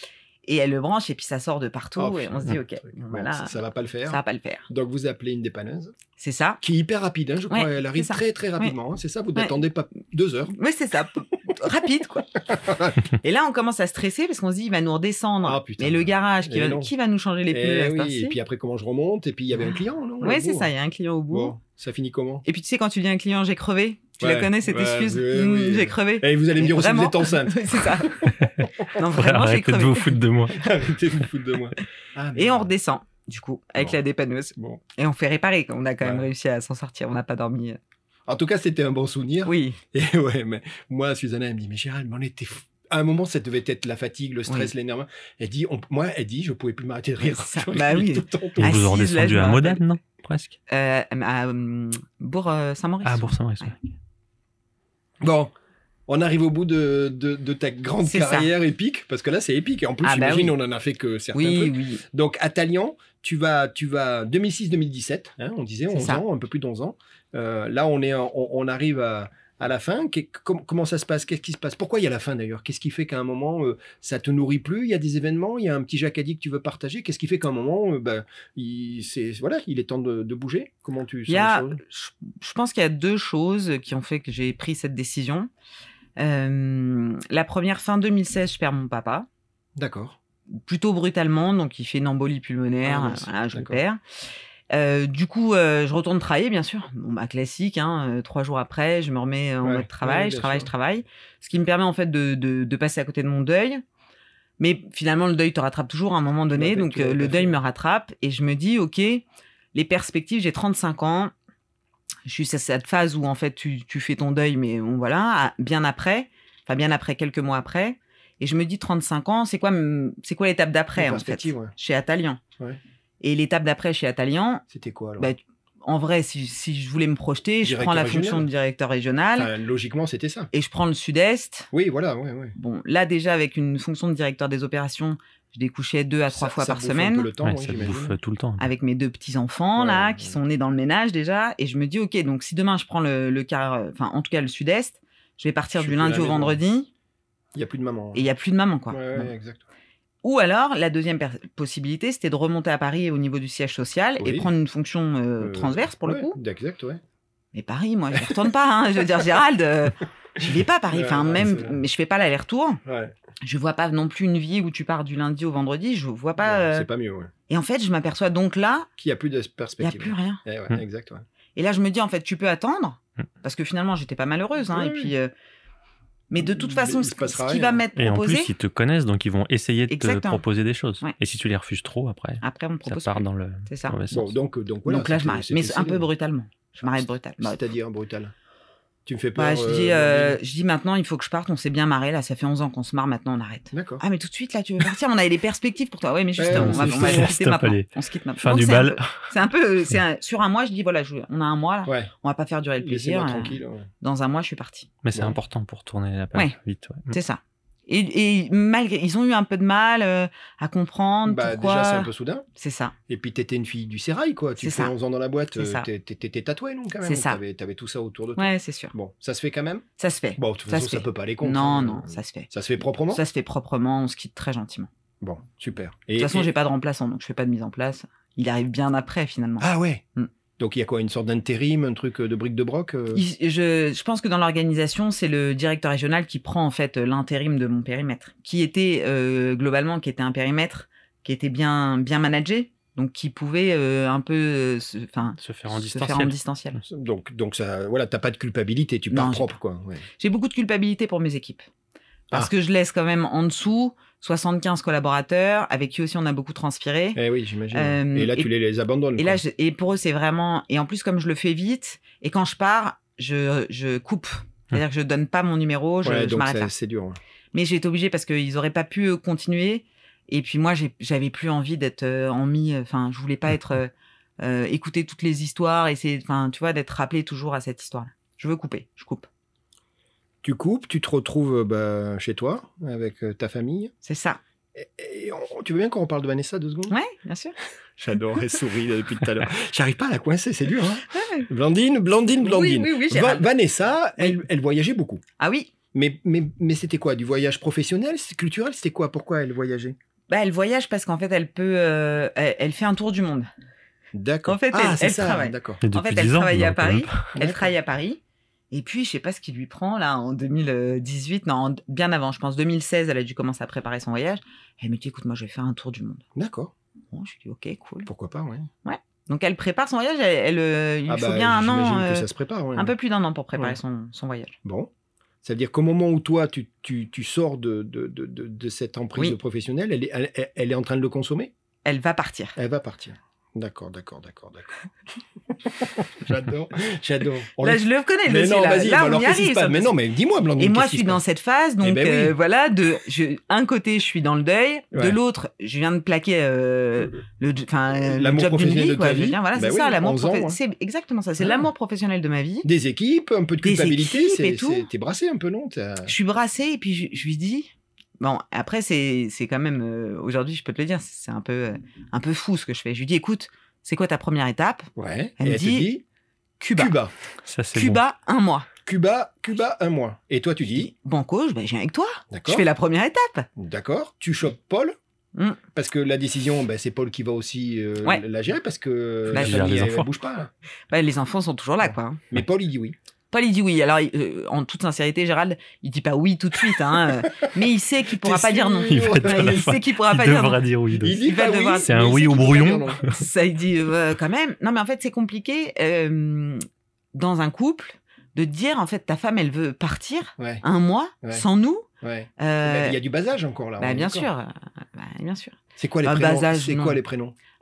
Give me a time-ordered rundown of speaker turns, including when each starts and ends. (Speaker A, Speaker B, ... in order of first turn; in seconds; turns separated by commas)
Speaker A: 0.5-4.7, Speaker B: 2.0-5.9, Speaker A: 6.2-6.6, Speaker B: 6.6-10.5, Speaker A: 7.5-8.7, Speaker A: 10.5-12.4, Speaker B: 12.5-13.1, Speaker A: 13.2-18.4, Speaker B: 15.4-16.9, Speaker B: 17.5-20.7, Speaker A: 20.2-21.6, Speaker B: 21.3-22.4, Speaker A: 22.4-28.4, Speaker B: 24.2-28.8, Speaker A: 28.9-30.2, Speaker C: 29.1-30.8, Speaker B: 30.6-32.7, Speaker A: 32.4-37.8, Speaker B: 34.6-34.8, Speaker B: 36.0-36.3, Speaker B: 38.3-48.7, Speaker A: 39.5-39.8, Speaker A: 47.2-49.8, Speaker C: 48.6-50.6, Speaker A: 50.7-53.7, Speaker C: 53.0-53.9, Speaker B: 55.2-55.5, Speaker B: 56.1-81.8, Speaker A: 58.0-58.5, Speaker A: 60.0-60.5, Speaker A: 61.3-62.0, Speaker A: 65.9-66.2, Speaker A: 81.3-85.5, Speaker A: 86.2-89.3, Speaker B: 89.8-90.2, Speaker A: 90.5-94.0, Speaker B: 92.8-93.8, Speaker A: 94.7-103.8, Speaker B: 99.6-100.7, Speaker A: 104.6-111.3, Speaker B: 106.5-107.6, Speaker A: 112.3-122.4, Speaker B: 121.0-121.7, Speaker A: 123.2-124.6, Speaker B: 124.7-125.3, Speaker A: 125.2-129.5, Speaker B: 127.6-128.5, Speaker B: 129.4-130.5, Speaker A: 130.5-131.7, Speaker B: 131.7-132.6, Speaker A: 132.6-137.3, Speaker B: 136.3-138.2, Speaker C: 137.4-138.7, Speaker A: 138.6-146.9, Speaker B: 139.8-140.4, Speaker B: 145.8-146.6, Speaker B: 147.6-148.2, Speaker A: 148.1-149.3, Speaker B: 148.9-149.6, Speaker A: 150.2-156.4, Speaker B: 154.2-154.5, Speaker B: 155.4-157.0, Speaker A: 157.5-162.8, Speaker B: 158.1-158.4, Speaker B: 160.4-161.8, Speaker B: 162.8-163.1, Speaker A: 163.4-166.9, Speaker B: 166.4-167.3, Speaker A: 167.5-168.9, Speaker B: 169.0-171.2, Speaker A: 169.8-170.4, Speaker A: 171.6-175.3, Speaker B: 174.7-175.1, Speaker A: 176.3-178.5, Speaker B: 176.4-177.8, Speaker C: 178.0-184.3, Speaker A: 179.9-180.4, Speaker A: 182.4-184.0, Speaker B: 184.1-186.1, Speaker A: 184.9-187.6, Speaker B: 187.4-188.3, Speaker B: 189.1-190.4, Speaker A: 189.3-204.9, Speaker B: 193.7-194.0, Speaker B: 196.4-197.3, Speaker C: 196.5-199.3, Speaker B: 201.9-202.1, Speaker B: 202.8-203.9, Speaker C: 205.0-207.2, Speaker A: 207.1-212.9, Speaker B: 211.3-212.4, Speaker B: 213.1-219.8, Speaker A: 214.6-214.9, Speaker A: 215.6-215.9, Speaker A: 217.0-217.4, Speaker A: 218.4-218.9, Speaker A: 220.0-222.5, Speaker B: 220.4-223.2, Speaker A: 223.1-224.9, Speaker B: 225.2-226.5, Speaker A: 226.2-230.3, Speaker B: 229.6-230.0, Speaker B: 230.6-233.2, Speaker A: 233.1-246.8, Speaker C: 245.4-246.4, Speaker B: 246.9-250.0, Speaker A: 249.1-249.6, Speaker A: 250.2-251.7, Speaker A: 252.3-257.2, Speaker B: 257.2-259.4, Speaker A: 257.7-258.5, Speaker A: 259.2-266.7, Speaker B: 266.0-267.2, Speaker A: 267.5-279.3, Speaker B: 280.4-283.9, Speaker A: 284.0-284.4, Speaker B: 284.8-287.0, Speaker A: 286.9-287.6, Speaker B: 288.0-295.2, Speaker A: 291.1-291.5, Speaker A: 292.4-293.5, Speaker A: 295.4-295.7, Speaker B: 295.9-300.0, Speaker A: 300.3-303.5, Speaker B: 304.1-305.8, Speaker A: 304.5-308.2, Speaker C: 305.8-307.3, Speaker B: 307.3-307.7, Speaker A: 308.7-316.2, Speaker B: 316.4-316.7, Speaker A: 317.1-318.1, Speaker B: 318.1-318.7, Speaker A: 318.9-324.6, Speaker B: 321.1-322.9, Speaker B: 324.6-324.9, Speaker B: 325.4-331.5, Speaker A: 331.9-332.6, Speaker B: 332.6-334.9, Speaker B: 335.5-341.2, Speaker A: 337.6-340.0, Speaker A: 340.6-352.7, Speaker B: 341.8-342.4, Speaker B: 344.9-345.2, Speaker B: 347.9-350.6, Speaker B: 351.4-351.7, Speaker B: 352.6-356.1, Speaker A: 353.6-354.9, Speaker A: 356.1-365.9, Speaker B: 365.0-366.0, Speaker A: 366.6-366.9, Speaker B: 366.8-367.1, Speaker C: 367.4-368.0, Speaker A: 367.8-368.7, Speaker B: 368.9-370.9, Speaker A: 370.7-373.5, Speaker B: 372.3-372.6, Speaker B: 373.6-374.9, Speaker B: 375.7-380.5, Speaker C: 379.3-380.1, Speaker A: 380.9-382.2, Speaker B: 381.8-383.0, Speaker A: 383.3-390.6, Speaker B: 388.1-389.7, Speaker C: 388.9-391.2, Speaker B: 391.0-393.0, Speaker A: 391.2-392.0, Speaker C: 391.9-393.1, Speaker A: 393.0-401.9, Speaker B: 400.4-400.6, Speaker B: 402.0-404.3, Speaker A: 402.4-403.0, Speaker A: 403.8-407.0, Speaker B: 405.8-407.4